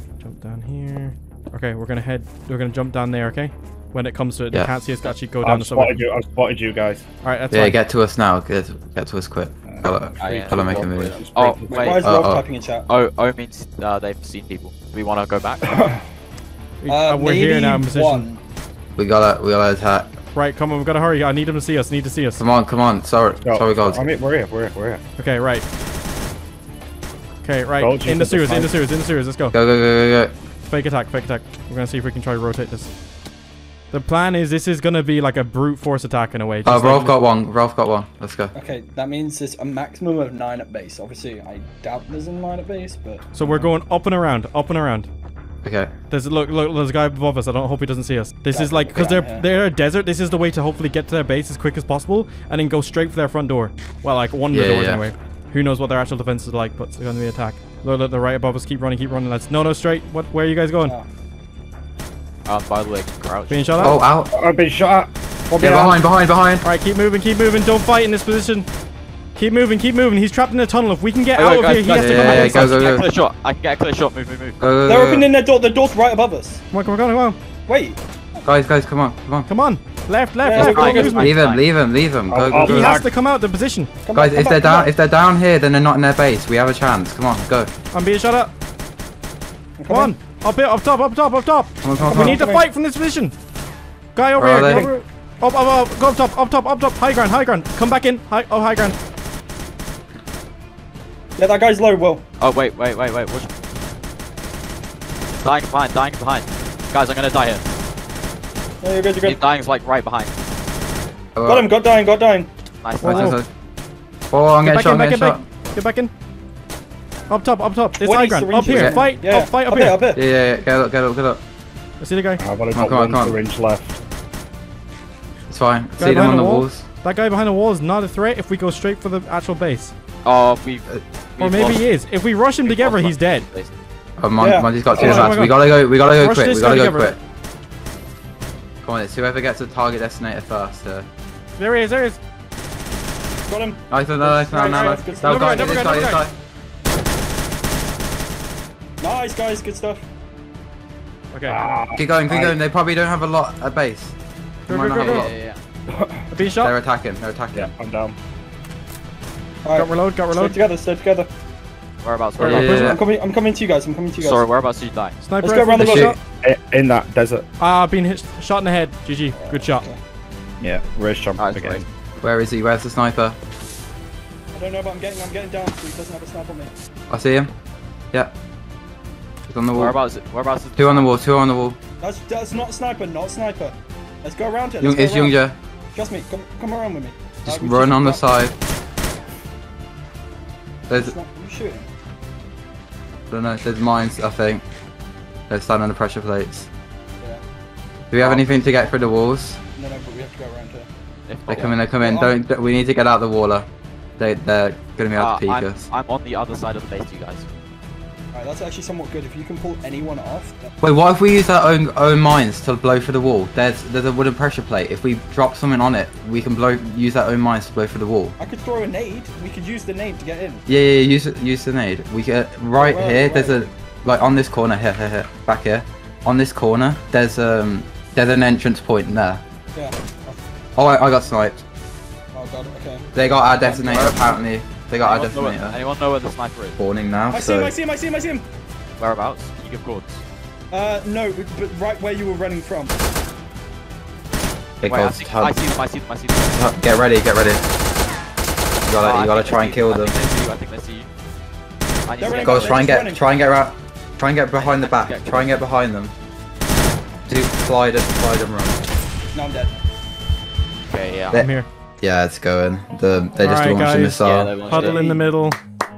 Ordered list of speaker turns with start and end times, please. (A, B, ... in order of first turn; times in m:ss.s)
0:00.2-0:06.0 A
0:05.4-0:07.0 B
0:07.2-0:07.8 A
0:07.5-0:11.2 C
0:09.7-0:12.0 B
0:10.2-0:12.2 D
0:11.7-0:12.8 E
0:12.0-0:12.4 C
0:12.9-0:15.8 D
0:15.6-0:16.0 B
0:16.8-0:18.2 A
0:16.9-0:18.4 E
0:19.0-0:20.2 C
0:20.3-0:22.4 A
0:22.4-0:24.1 C
0:23.4-0:25.0 B
0:25.2-0:25.6 A
0:27.4-0:29.6 A
0:27.8-0:28.8 B
0:29.5-0:30.3 C
0:30.6-0:32.9 A
0:33.9-0:37.2 A
0:36.6-0:38.5 C
0:38.5-0:43.7 E
0:43.3-0:45.1 A
0:45.6-0:45.9 C
0:46.1-1:01.0 A
0:48.5-0:49.4 E
0:54.5-0:55.0 C
1:02.4-1:04.0 D
1:03.5-1:04.0 A
1:03.8-1:04.3 C
1:04.3-1:06.0 B
1:05.6-1:06.6 C
1:06.6-1:08.7 A
1:09.3-1:12.9 A
1:11.3-1:14.6 D
1:11.9-1:13.1 C
1:14.6-1:15.3 C
1:14.8-1:16.6 E
1:16.7-1:17.4 A
1:17.7-1:18.0 E
1:18.4-1:19.5 C
1:19.5-1:21.4 A
1:20.4-1:21.3 E
1:20.5-1:21.6 D
1:20.8-1:23.0 C
1:22.3-1:23.1 B
1:22.5-1:23.9 A
1:24.0-1:24.9 E
1:24.1-1:27.7 C
1:27.9-1:28.5 A
1:29.8-1:30.2 E
1:29.9-1:33.3 A
1:31.8-1:32.5 C
1:32.0-1:32.6 E
1:34.1-1:39.0 A
1:34.4-1:34.8 C
1:34.6-1:35.0 E
1:41.4-1:42.2 E
1:42.4-1:43.5 D
1:45.4-1:47.6 D
1:48.8-1:49.4 E
1:49.2-1:50.3 D
1:51.3-1:51.7 C
1:51.4-1:52.5 E
1:52.8-1:53.4 D
1:53.0-1:53.5 C
1:53.0-1:53.4 A
1:54.3-1:55.4 C
1:54.6-1:56.1 A
1:57.3-2:00.0 A
1:58.0-2:00.2 E
1:58.6-1:59.0 C
2:00.1-2:01.4 C
2:02.0-2:02.4 A
2:02.4-2:04.0 B
2:02.7-2:03.4 C
2:05.5-2:06.8 C
2:06.0-2:09.9 A
2:10.2-2:11.8 D
2:11.4-2:13.4 A
2:12.6-2:13.7 D
2:14.2-2:17.2 C
2:14.4-2:15.4 E
2:14.9-2:17.1 A
2:18.8-2:21.1 C
2:21.6-2:22.2 A
2:23.5-2:26.1 E
2:23.9-2:26.3 C
2:24.6-2:26.2 A
2:29.0-2:30.1 E
2:31.3-2:31.7 A
2:31.5-2:32.6 B
2:31.9-2:34.1 C
2:34.7-2:35.3 A
2:34.7-2:35.3 C
2:34.8-2:35.6 D
2:35.9-2:36.2 B
2:36.3-2:36.7 A
2:36.6-2:37.7 C
2:37.5-2:38.2 B
2:39.6-2:41.3 E
2:39.7-2:40.6 A
2:42.0-2:43.0 D
2:42.4-2:43.0 A
2:42.4-2:43.0 C
2:42.6-2:44.4 E
2:44.2-2:45.2 D
2:45.2-2:46.2 A
2:45.4-2:46.1 E
2:45.7-2:46.2 C
2:46.2-2:47.4 B
2:47.6-2:49.8 A
2:49.3-2:50.0 E
2:50.6-2:51.8 B
2:51.4-2:51.8 D
2:52.2-2:53.4 C
2:54.5-2:56.7 E
2:57.1-2:57.5 C
2:59.5-3:00.0 C
2:59.7-3:01.1 D
3:00.8-3:01.8 C
3:02.0-3:05.4 E
3:04.8-3:05.6 C
3:05.9-3:08.2 E
3:07.4-3:08.5 C
3:10.9-3:11.1 C
3:10.9-3:11.9 E
3:13.3-3:14.6 C
3:15.5-3:16.7 C
3:18.1-3:19.6 C
3:18.2-3:18.9 E
3:19.8-3:20.9 E
3:21.3-3:21.8 D
3:21.5-3:22.3 E
3:21.5-3:25.9 C
3:25.1-3:27.5 D
3:28.3-3:30.7 E
3:30.8-3:38.4 C
3:38.4-3:40.6 E
3:40.7-3:49.4 C
3:42.8-3:43.6 E
3:49.7-3:50.4 E
3:50.8-3:51.6 C
3:52.3-3:54.4 E
3:53.1-3:55.8 C
3:55.0-3:56.8 D
3:56.8-3:57.7 C
3:57.3-3:58.4 E
3:59.0-4:00.2 D
4:00.7-4:03.0 E
4:04.8-4:05.5 C
4:04.8-4:06.7 D
4:06.5-4:07.6 C
4:08.9-4:10.1 C
4:09.0-4:11.1 D
4:12.1-4:12.9 D
4:12.2-4:13.2 E
4:12.4-4:16.1 C
4:14.5-4:15.5 D
4:17.3-4:18.8 C
4:19.3-4:19.7 E
4:20.9-4:21.4 D
4:21.3-4:24.5 C
4:21.3-4:21.7 A
4:23.4-4:25.6 A
4:24.2-4:25.0 D
4:24.7-4:25.2 E